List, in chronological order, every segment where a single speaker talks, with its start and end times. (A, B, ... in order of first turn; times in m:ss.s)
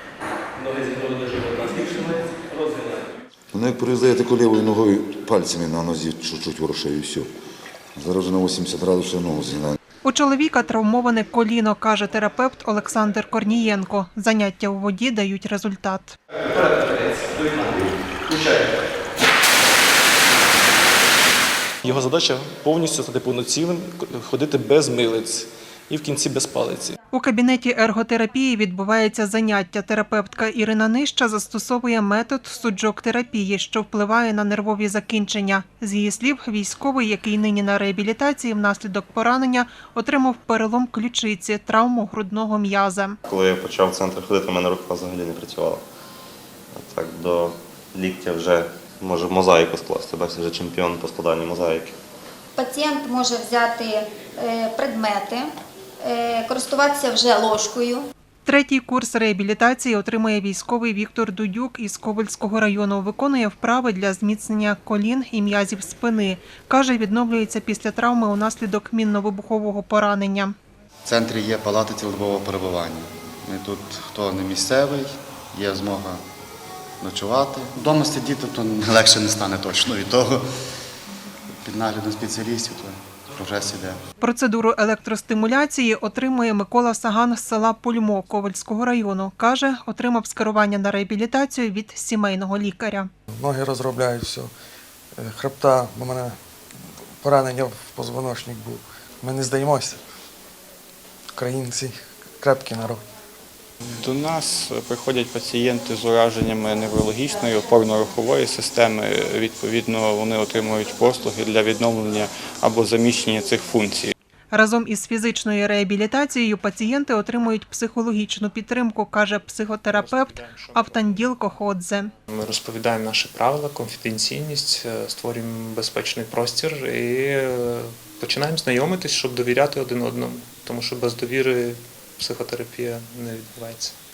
0:00.7-0:02.2 A
0:03.5-0:07.3 B
0:08.0-0:09.8 B
0:10.0-0:16.1 C
0:16.6-0:17.8 A
0:21.8-0:27.0 A
0:27.1-0:43.2 C
0:43.3-0:45.8 D
0:46.8-0:51.9 D
0:52.6-0:55.5 E
0:56.0-0:58.1 E
0:58.5-1:10.6 C
1:11.1-1:16.2 F
1:17.0-1:20.4 F
1:21.6-1:24.0 F
1:24.2-1:33.1 C
1:33.3-1:34.5 G
1:35.2-1:36.4 G
1:37.2-1:40.0 G
1:41.4-1:43.0 G
1:44.0-1:54.1 H
1:54.5-2:02.1 C
1:59.9-2:01.1 I
2:02.3-2:13.9 I